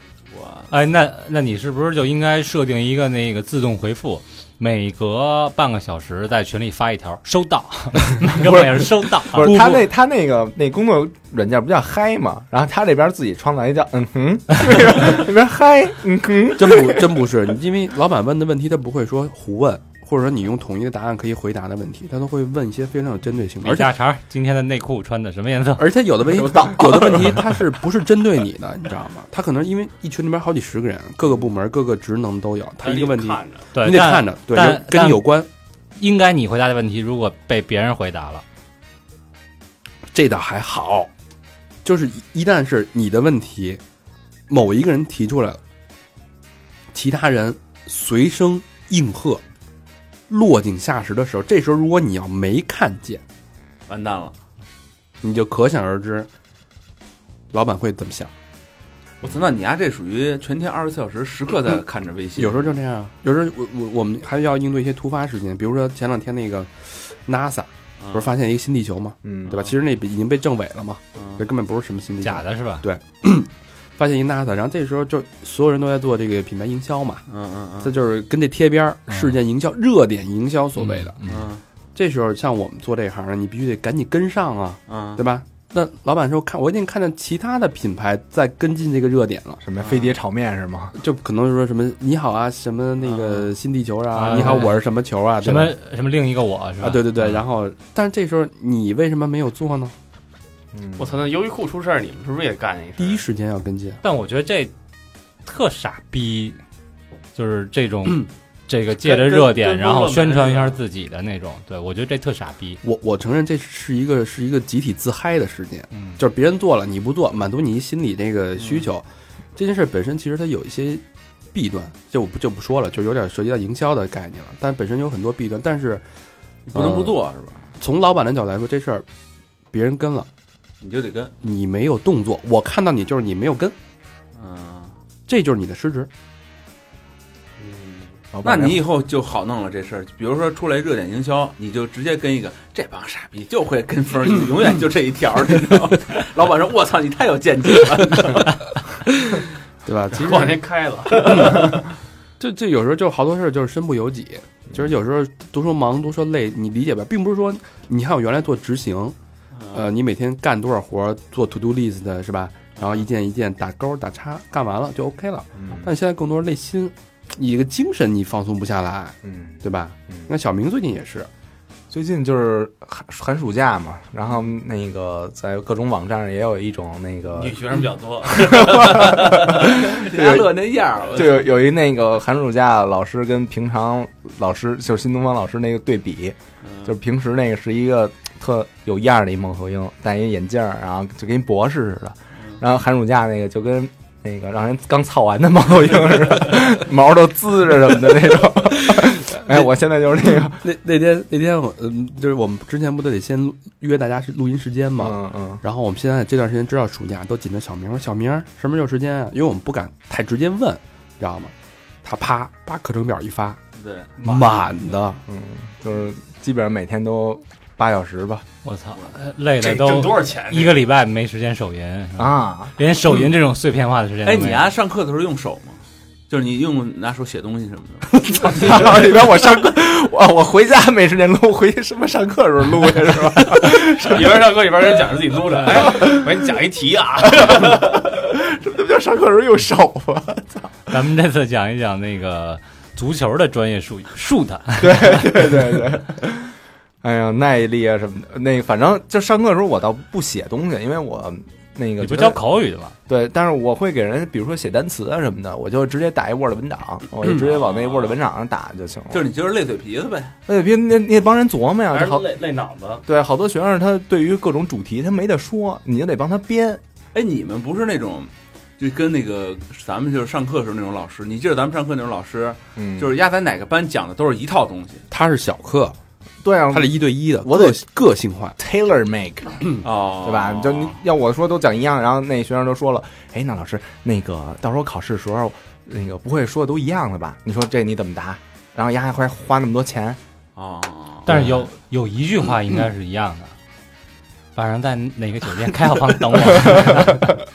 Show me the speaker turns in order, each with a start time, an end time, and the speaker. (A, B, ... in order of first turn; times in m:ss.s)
0:00.3-0:00.7 A
0:00.7-0:09.6 B
0:08.4-0:17.3 C
0:09.3-0:09.9 D
0:16.6-0:24.0 D
0:23.6-0:26.0 B
0:25.8-0:35.5 D
0:26.4-0:27.4 C
0:32.8-0:33.7 E
0:33.7-0:35.3 B
0:36.0-0:38.4 B
0:40.1-0:41.1 D
0:41.8-0:43.8 D
0:44.5-0:45.6 D
0:46.9-0:49.4 D
0:50.3-0:53.2 D
0:53.9-0:54.4 A
0:55.2-0:56.3 D
0:57.5-0:58.3 D
0:59.2-1:02.8 A
1:02.4-1:17.2 D
1:08.0-1:08.3 A
1:09.2-1:09.6 C
1:09.5-1:09.8 A
1:11.2-1:11.4 A
1:12.2-1:12.8 B
1:17.3-1:18.0 A
1:17.8-1:21.2 D
1:20.8-1:21.5 B
1:21.2-1:21.6 A
1:22.0-1:29.6 D
1:24.9-1:25.2 A
1:29.6-1:31.0 C
1:31.0-1:35.8 D
1:34.1-1:37.4 B
1:36.8-1:39.9 D
1:40.7-1:41.2 C
1:41.0-1:43.2 E
1:43.0-1:44.0 D
1:44.0-1:44.7 B
1:45.4-1:46.6 B
1:47.4-1:52.8 B
1:49.0-1:50.8 E
1:52.8-2:06.0 D
1:55.9-1:56.2 B
2:06.7-2:07.7 A
2:06.7-2:07.2 D
2:07.8-2:09.0 D
2:09.7-2:10.3 D
2:10.8-2:11.3 A
2:11.4-2:13.8 D
2:14.4-2:15.0 A
2:15.3-2:16.1 D
2:17.7-2:18.0 E
2:18.3-2:18.8 C
2:18.4-2:28.6 A
2:29.4-2:31.9 D
2:30.2-2:31.9 E
2:32.4-2:39.2 D
2:39.6-2:39.9 A
2:39.7-2:51.3 D
2:42.8-2:43.1 A
2:45.6-2:45.9 C
2:49.2-2:50.3 C
2:51.9-3:20.7 C
2:57.3-2:59.0 E
2:58.6-3:01.5 A
3:06.6-3:06.9 A
3:19.3-3:19.7 D
3:20.3-3:31.5 D
3:25.0-3:25.6 C
3:32.0-3:33.6 D
3:33.8-3:34.1 A
3:34.2-3:34.7 E
3:34.2-3:35.2 D
3:35.3-3:38.5 C
3:38.6-3:44.7 B
3:39.6-3:40.8 E
3:42.2-3:42.7 C
3:44.2-3:48.2 A
3:48.3-3:54.5 C
3:53.9-3:58.0 E
3:55.7-3:56.2 C
3:57.4-4:00.7 C
4:00.9-4:05.9 B
4:04.8-4:12.4 C
4:12.0-4:13.0 B
4:13.1-4:19.3 C
4:17.3-4:18.2 A
4:19.1-4:20.4 A
4:20.5-4:22.3 C
4:21.9-4:23.0 E
4:23.1-4:26.8 C
4:27.1-4:35.0 A
4:32.8-4:33.2 C
4:35.1-4:36.0 D
4:36.4-4:37.8 C
4:36.7-4:38.6 D
4:38.6-4:39.7 C
4:39.8-4:41.0 A
4:40.2-4:50.2 C
4:50.6-4:51.3 A
4:51.3-4:53.5 B
4:54.6-4:57.4 B